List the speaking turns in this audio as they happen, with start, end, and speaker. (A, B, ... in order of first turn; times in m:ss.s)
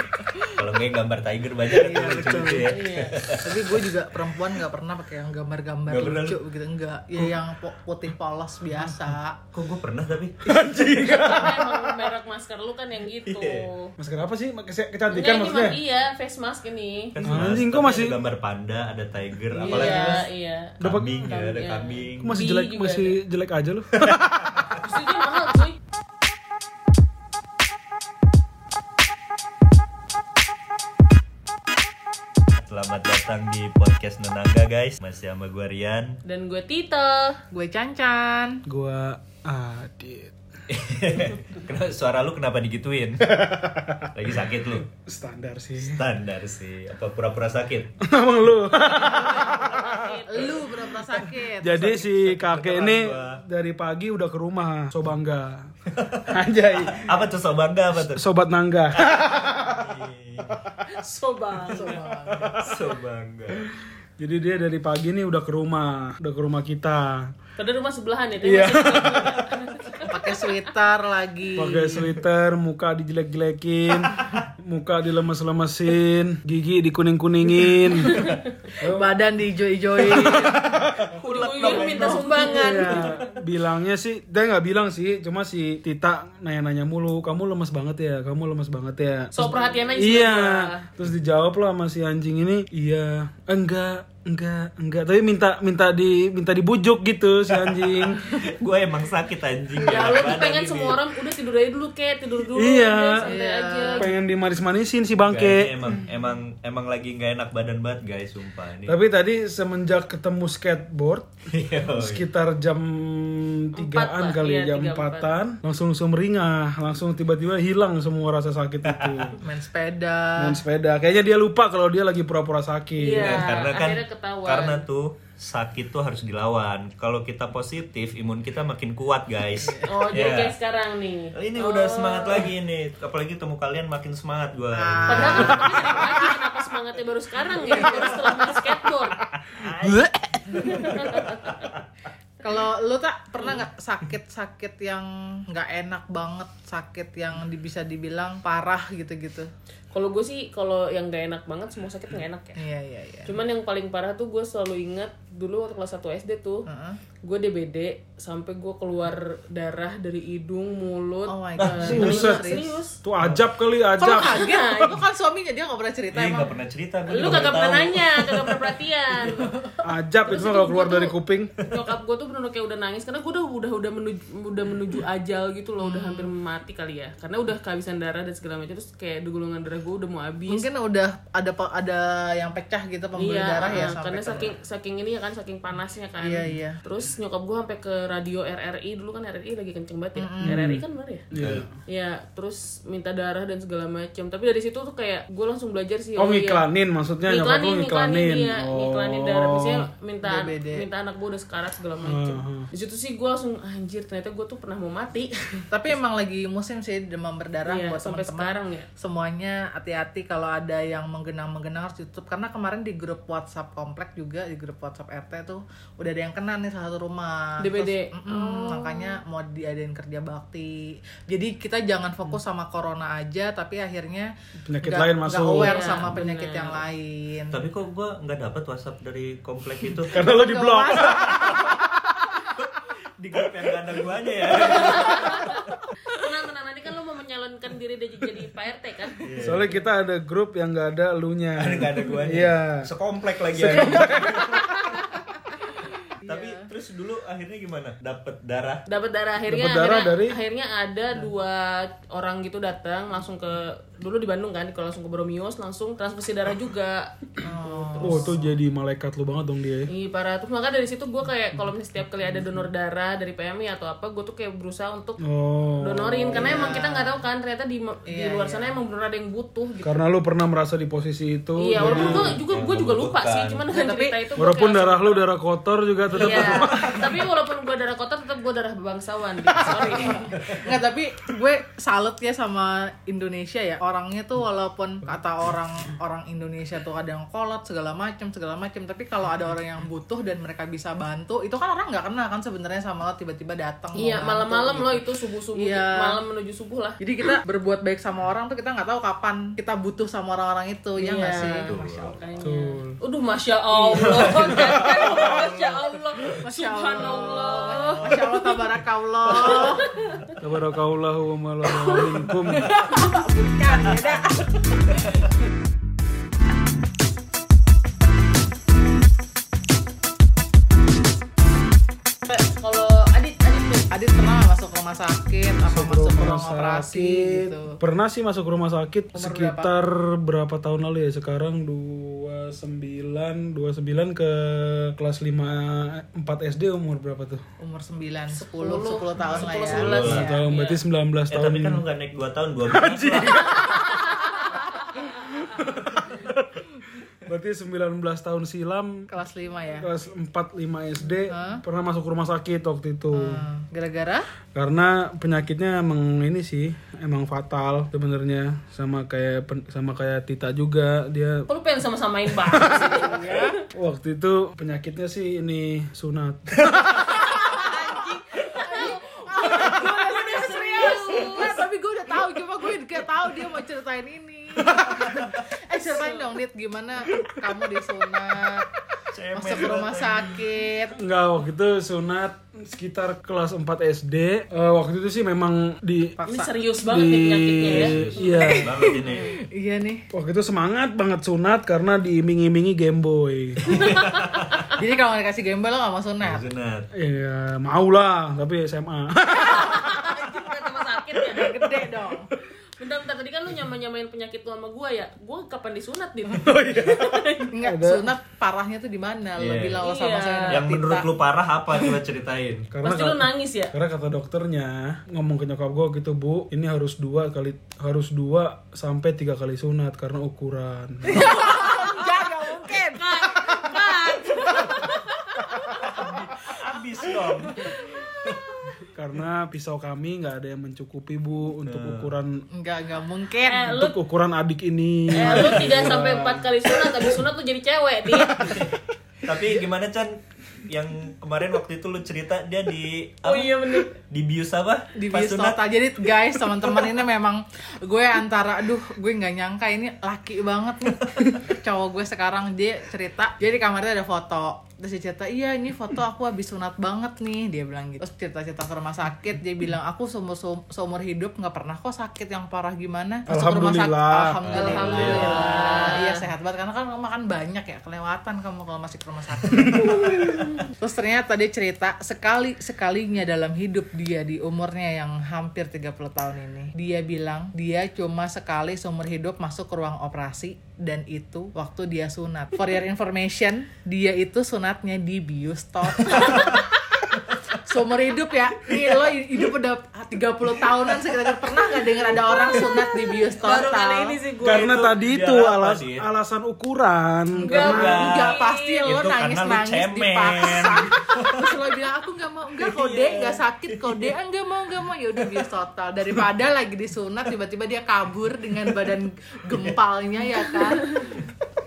0:00.6-0:03.7 A
0:01.8-0:02.7 B
0:02.6-0:03.2 C
0:03.4-0:09.4 B
0:05.9-0:06.4 A
0:09.5-0:10.4 A
0:10.4-0:12.0 D
0:11.0-0:13.9 C
0:13.2-0:13.6 A
0:14.0-0:15.8 D
0:15.1-0:17.1 C
0:17.1-0:20.3 A
0:17.2-0:18.1 D
0:19.6-0:23.2 C
0:19.6-0:20.2 B
0:20.8-0:21.3 D
0:20.8-0:22.4 A
0:22.2-0:24.7 D
0:24.1-0:24.7 A
0:24.8-0:25.8 C
0:32.6-0:36.2 A
0:36.2-0:37.4 C
0:37.5-0:38.6 B
0:38.6-0:40.3 D
0:40.7-0:43.2 A
0:43.2-0:44.1 D
0:44.1-0:44.8 A
0:44.9-0:46.0 D
0:45.8-0:47.9 A
0:48.0-0:50.1 D
0:48.8-0:50.6 C
0:50.3-0:52.1 B
0:51.2-0:55.7 D
0:52.2-0:53.4 A
0:56.0-0:56.3 A
0:56.3-0:57.1 D
0:56.9-0:58.2 A
0:58.0-0:59.8 D
0:59.0-1:00.6 A
1:00.5-1:00.8 D
1:00.9-1:02.0 C
1:01.7-1:02.6 B
1:02.3-1:02.7 D
1:02.6-1:03.6 A
1:04.2-1:07.3 D
1:07.6-1:10.4 C
1:08.4-1:09.5 D
1:10.1-1:12.1 B
1:11.6-1:18.2 D
1:14.1-1:14.4 A
1:18.0-1:18.4 C
1:18.8-1:19.1 D
1:18.8-1:20.7 B
1:20.0-1:21.0 D
1:21.1-1:23.3 A
1:21.2-1:23.1 C
1:21.7-1:23.1 B
1:22.6-1:38.2 D
1:29.3-1:30.8 C
1:37.5-1:41.0 A
1:39.8-1:40.2 B
1:39.8-1:44.1 C
1:42.5-1:43.3 D
1:43.2-1:44.1 B
1:43.9-1:45.7 D
1:45.2-1:49.0 A
1:48.8-1:51.3 D
1:51.5-1:52.3 A
1:52.0-1:59.3 D
1:53.8-1:55.3 C
1:58.9-1:59.3 A
1:59.4-2:00.6 B
2:00.4-2:03.4 D
2:03.0-2:04.8 C
2:03.2-2:10.6 A
2:09.6-2:10.1 B
2:09.8-2:12.5 C
2:11.3-2:15.9 A
2:14.7-2:16.0 B
2:15.0-2:19.2 C
2:17.6-2:18.2 B
2:17.7-2:18.2 A
2:19.3-2:21.8 A
2:19.6-2:21.0 D
2:20.6-2:21.8 C
2:22.4-2:29.5 B
2:29.9-2:32.6 C
2:32.6-2:33.3 B
2:33.2-2:36.6 C
2:36.7-2:37.0 B
2:37.2-2:43.0 C
2:41.3-2:42.8 B
2:41.6-2:41.9 A
2:41.8-2:42.5 D
2:43.0-2:44.4 D
2:43.2-2:43.4 A
2:44.0-2:46.5 B
2:44.1-2:45.0 C
2:46.1-2:48.7 A
2:47.1-2:49.5 C
2:49.4-2:49.7 B
2:49.8-2:51.5 D
2:50.3-3:00.6 C
2:55.8-2:56.3 B
3:00.5-3:04.5 B
3:03.2-3:11.2 C
3:06.2-3:06.8 B
3:10.2-3:10.6 B
3:10.4-3:11.7 D
3:11.3-3:11.6 A
3:11.9-3:16.6 C
3:16.2-3:19.8 D
3:17.3-3:25.6 C
3:20.2-3:20.8 B
3:22.0-3:22.7 D
3:25.7-3:44.3 B
3:27.6-3:28.9 C
3:37.6-3:39.2 C
3:44.6-3:45.9 D
3:44.8-3:47.6 B
3:45.6-3:46.8 C
3:47.5-3:50.2 A
3:50.1-3:51.6 D
3:50.1-3:51.7 B
3:52.5-3:55.9 A
3:54.5-3:59.2 C
3:59.2-3:59.7 A
3:59.4-4:02.8 D
4:01.6-4:04.8 A
4:03.5-4:04.6 D
4:06.2-4:06.7 B
4:06.2-4:08.8 A
4:08.9-4:17.2 C
4:09.5-4:10.4 D
4:17.4-4:18.5 B
4:17.8-4:18.3 C
4:18.0-4:19.9 D
4:19.9-4:25.2 C
4:22.4-4:22.6 D
4:25.2-4:26.8 D
4:25.8-4:29.9 C
4:26.3-4:27.2 B
4:28.0-4:28.8 B
4:29.8-4:32.4 D
4:31.6-4:35.2 C
4:31.8-4:32.4 B
4:32.0-4:33.6 A
4:33.7-4:34.2 B
4:34.4-4:37.2 D
4:36.1-4:40.3 C
4:39.8-4:56.2 B
4:53.9-4:57.0 C
4:57.0-5:02.4 B
5:01.0-5:08.3 C
5:01.7-5:02.2 A
5:02.4-5:03.0 D
5:03.8-5:04.5 B
5:04.0-5:06.4 A
5:06.4-5:09.9 B
5:08.0-5:08.7 A
5:09.3-5:09.6 A
5:09.3-5:10.2 C
5:10.4-5:12.7 D
5:11.6-5:13.1 C
5:12.7-5:15.2 B
5:22.3-5:23.9 C
5:23.9-5:27.8 B
5:25.6-5:37.4 D
5:29.1-5:29.7 B
5:37.6-5:40.4 B
5:38.3-5:40.8 C
5:39.2-5:40.2 A
5:40.0-5:41.8 D
5:41.3-5:43.6 A
5:42.7-5:44.3 D
5:45.0-5:46.7 D
5:47.2-5:49.0 D
5:49.1-5:49.9 B
5:49.8-5:53.4 D
5:51.3-5:51.6 B
5:53.1-5:54.2 B
5:54.5-6:01.5 D
6:01.5-6:03.5 C
6:02.8-6:03.5 B
6:03.7-6:07.1 D
6:06.9-6:11.6 C
6:08.4-6:18.7 B
6:15.8-6:16.4 C
6:19.1-6:20.3 A
6:19.3-6:20.9 B
6:20.9-6:26.2 D
6:26.2-6:26.5 B
6:26.3-6:29.2 C
6:26.8-6:28.7 D
6:27.6-6:29.3 A
6:28.2-6:30.0 B
6:30.1-6:33.6 D
6:33.6-6:34.6 A
6:33.8-6:34.4 C
6:34.8-6:36.4 B
6:36.2-6:36.9 A
6:36.9-6:39.8 D
6:39.4-6:41.5 C
6:41.3-6:42.3 B
6:42.8-6:47.5 C
6:46.4-6:47.0 D
6:47.5-6:51.1 B
6:47.6-6:48.0 D
6:49.4-6:49.8 A
6:49.8-6:50.6 C
6:50.5-6:52.7 A
6:52.7-7:01.2 D
6:52.8-6:53.7 C
7:01.0-7:03.8 B
7:01.1-7:05.8 C
7:05.9-7:07.7 A
7:07.5-7:07.8 C
7:08.9-7:12.4 D
7:11.6-7:12.1 A
7:12.5-7:13.7 B
7:13.5-7:13.9 C
7:13.7-7:17.0 D
7:15.1-7:18.5 C
7:15.2-7:15.8 A
7:18.1-7:18.7 D
7:18.4-7:20.1 A
7:20.6-7:25.6 A
7:23.2-7:23.9 C
7:24.9-8:14.2 B
7:43.3-7:44.4 D
7:44.4-7:45.6 A
7:44.5-7:46.2 C
7:49.8-7:50.5 C
8:06.2-8:06.6 C
8:12.0-8:14.8 C
8:14.4-8:17.9 D
8:14.4-8:16.0 A
8:17.4-8:31.0 B
8:17.4-8:18.9 C
8:17.7-8:21.6 A
8:22.6-8:24.1 A
8:25.2-8:25.4 A
8:28.7-8:29.0 A
8:31.0-8:31.2 A